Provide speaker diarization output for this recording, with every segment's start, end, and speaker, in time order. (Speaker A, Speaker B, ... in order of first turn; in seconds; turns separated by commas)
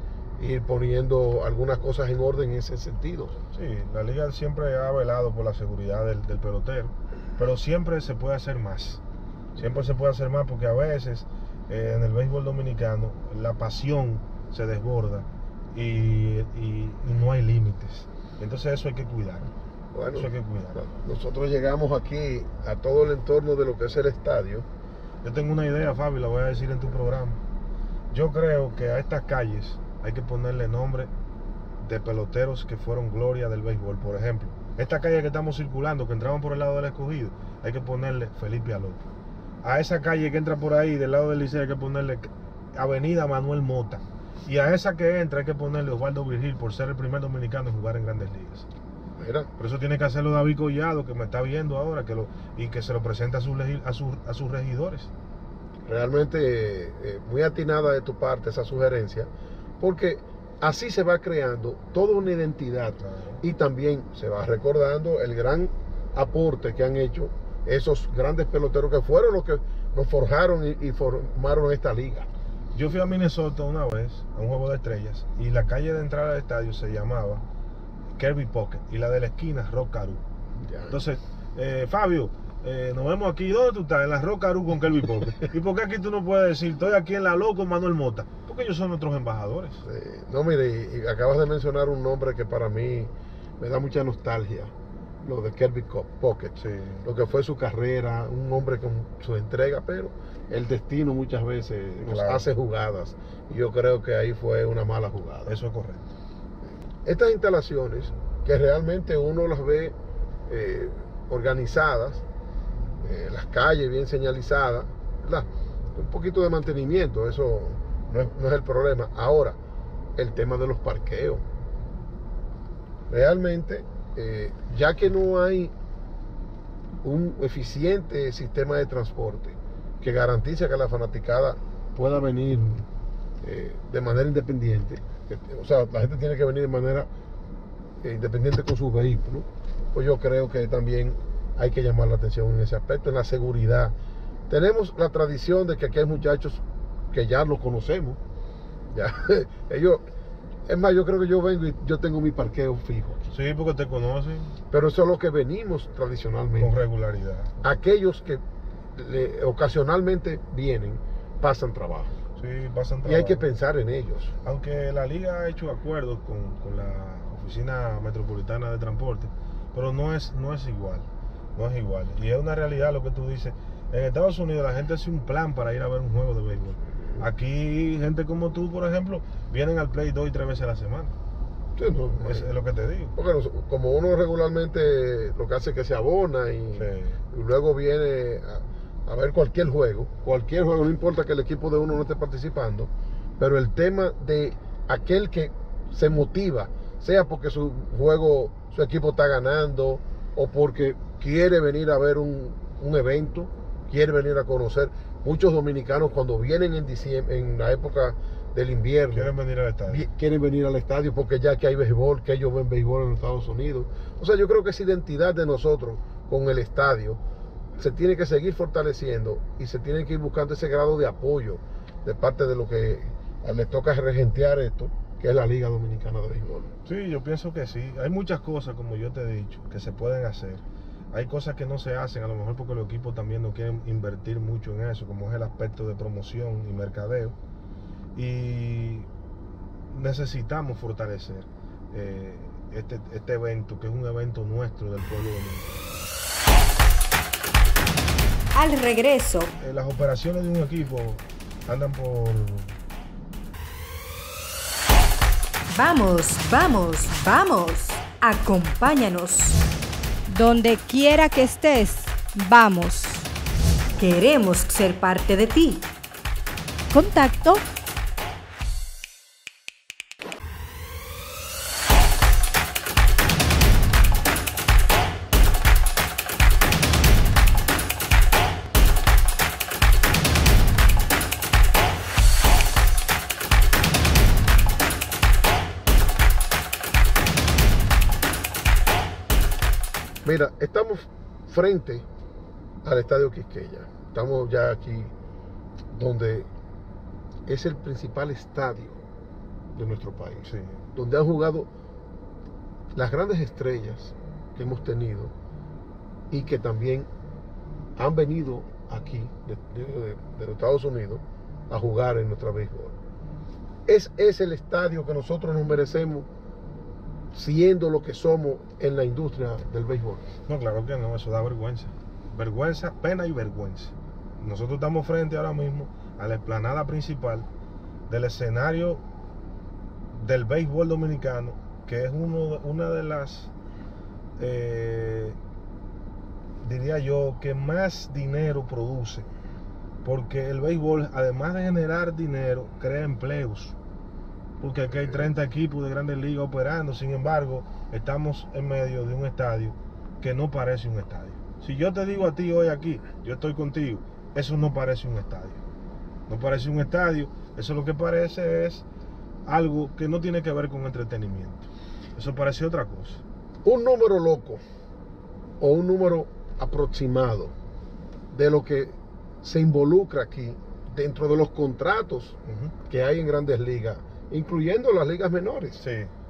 Speaker A: 0.4-3.4, Speaker B: 3.5-9.0, Speaker B: 9.6-19.5, Speaker A: 19.9-24.7, Speaker B: 20.1-20.9, Speaker B: 25.2-27.4, Speaker B: 28.1-31.1, Speaker B: 31.8-39.0, Speaker B: 39.6-48.7, Speaker A: 49.2-49.5, Speaker B: 49.6-55.1, Speaker A: 55.9-72.3, Speaker B: 63.0-63.4, Speaker B: 72.7-77.4, Speaker B: 78.2-80.2, Speaker A: 80.6-81.0, Speaker B: 80.9-89.8, Speaker A: 89.8-94.7, Speaker A: 95.2-105.5, Speaker B: 96.6-97.1, Speaker B: 102.0-102.5, Speaker B: 105.5-106.1, Speaker A: 107.0-110.0, Speaker A: 110.5-112.2, Speaker A: 113.0-119.6, Speaker A: 120.2-121.4, Speaker A: 123.1-125.7, Speaker A: 127.0-132.9, Speaker A: 133.4-137.1, Speaker A: 138.0-143.9, Speaker A: 144.5-148.2, Speaker A: 148.9-150.0, Speaker A: 150.7-153.3, Speaker B: 153.3-154.5, Speaker A: 154.7-156.8, Speaker B: 156.6-157.6, Speaker A: 157.6-158.4, Speaker A: 158.9-162.2, Speaker B: 162.4-163.4, Speaker A: 163.1-164.3, Speaker B: 164.4-181.1, Speaker A: 181.8-182.5, Speaker B: 182.2-183.2, Speaker A: 183.2-209.3, Speaker B: 186.8-187.2, Speaker B: 209.1-210.1, Speaker A: 209.9-217.2, Speaker A: 217.8-226.7, Speaker B: 226.8-237.4, Speaker B: 238.2-239.1, Speaker B: 239.9-245.8, Speaker C: 248.6-249.5, Speaker B: 249.6-252.7, Speaker C: 255.7-259.6, Speaker C: 260.3-263.2, Speaker C: 264.0-265.9, Speaker C: 266.9-267.6, Speaker A: 290.2-292.1, Speaker A: 292.8-295.1, Speaker A: 295.9-296.5, Speaker A: 297.5-299.0, Speaker A: 299.7-301.7, Speaker B: 300.4-300.8, Speaker A: 302.9-305.3, Speaker A: 306.3-307.1, Speaker A: 308.0-312.9, Speaker A: 313.9-316.3, Speaker A: 317.3-320.2, Speaker B: 320.5-327.5, Speaker B: 328.1-329.0, Speaker B: 330.1-333.5, Speaker B: 334.4-335.4, Speaker B: 336.6-339.3, Speaker B: 340.0-343.8, Speaker B: 344.6-355.6, Speaker B: 356.3-358.9, Speaker B: 359.5-363.2, Speaker A: 363.6-364.6, Speaker A: 365.6-367.5, Speaker A: 368.3-375.8, Speaker B: 372.5-372.7, Speaker B: 375.8-376.1